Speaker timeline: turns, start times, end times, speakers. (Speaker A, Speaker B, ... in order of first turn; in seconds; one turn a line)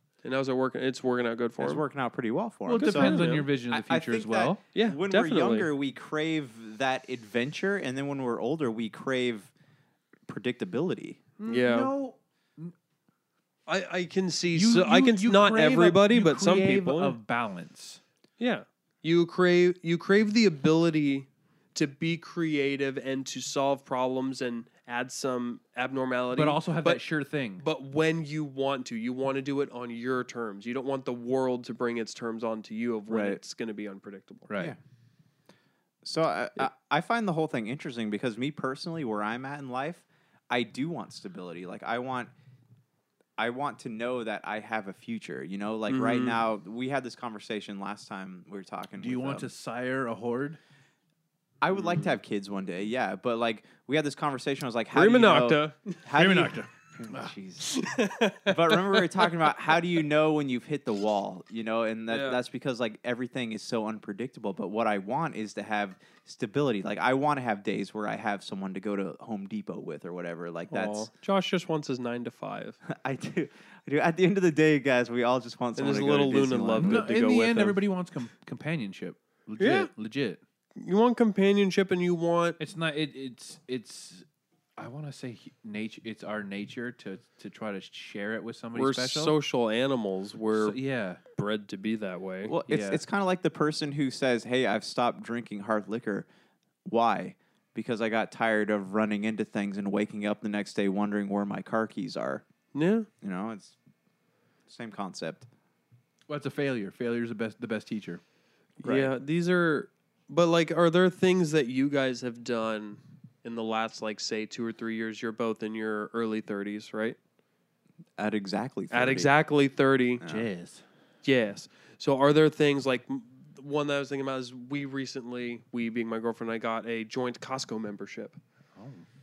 Speaker A: 0.2-1.8
Speaker B: 1.6-9.5
Speaker C: 2.7-4.6
Speaker A: 2.8-3.5
Speaker A: 4.7-5.7
Speaker B: 10.3-11.2
Speaker C: 11.4-12.7
Speaker A: 11.5-11.9
Speaker A: 13.7-17.1
Speaker C: 14.5-18.0
Speaker A: 18.4-27.0
Speaker C: 26.3-27.6
Speaker A: 27.6-34.5
Speaker B: 33.1-33.4
Speaker C: 34.5-34.7
Speaker B: 36.0-42.3
Speaker B: 43.4-49.5
Speaker A: 45.9-46.4
Speaker C: 49.0-50.6
Speaker B: 51.6-57.7
Speaker A: 54.9-56.0
Speaker C: 56.1-57.3
Speaker A: 57.6-59.3
Speaker B: 58.5-71.1
Speaker A: 62.1-62.4
Speaker A: 70.7-72.8
Speaker B: 72.8-77.1
Speaker A: 75.8-77.8
Speaker C: 76.8-80.4
Speaker A: 79.6-79.9
Speaker A: 80.8-82.6
Speaker C: 82.6-84.2
Speaker C: 84.8-89.3
Speaker A: 88.7-90.8
Speaker C: 90.5-91.2
Speaker A: 91.3-92.5
Speaker B: 92.4-96.3
Speaker C: 92.7-93.0
Speaker B: 96.8-102.4
Speaker A: 102.7-103.1
Speaker B: 103.2-103.8
Speaker B: 104.7-105.5
Speaker C: 106.3-108.2
Speaker A: 108.8-117.2
Speaker B: 118.2-119.3
Speaker A: 118.9-120.2
Speaker B: 120.2-120.5
Speaker C: 120.2-120.8
Speaker A: 121.2-128.4
Speaker C: 128.8-129.1